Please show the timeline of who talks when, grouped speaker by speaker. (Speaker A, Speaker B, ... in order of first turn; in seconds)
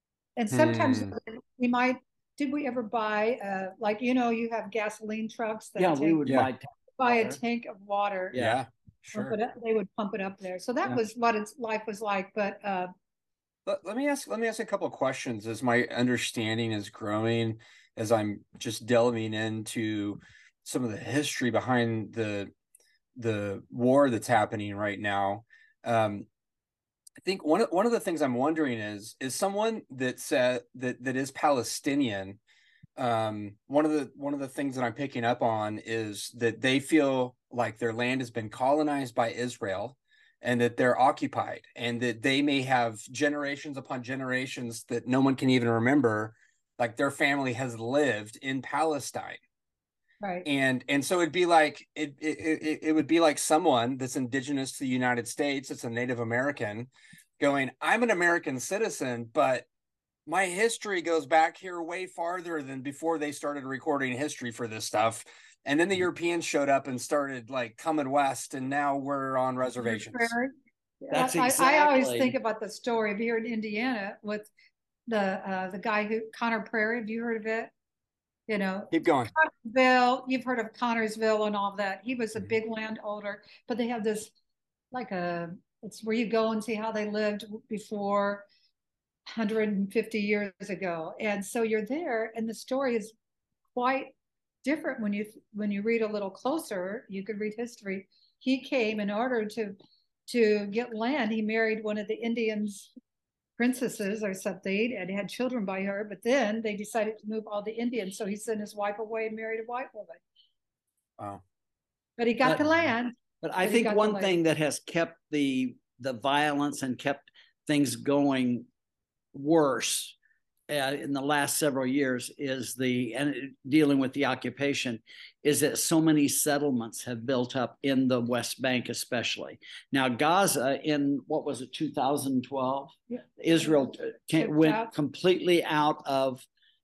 Speaker A: 0.4-6.2, 7.0-8.4, 9.1-12.9, 50.2-50.5, 69.8-74.5, 75.1-77.7, 78.5-84.3, 84.9-88.5, 89.3-93.1, 93.7-102.9, 103.6-110.2, 112.2-114.3, 133.1-133.7, 134.4-134.9
Speaker B: 0.5-1.1, 8.3-9.3, 13.7-22.5, 23.1-26.2, 27.2-32.4, 33.0-49.4, 50.4-56.9, 57.4-59.7, 60.2-70.3, 78.9-79.3
Speaker C: 5.8-7.4, 8.3-8.6, 71.1-72.3, 113.4-118.7, 119.3-120.1, 120.7-136.4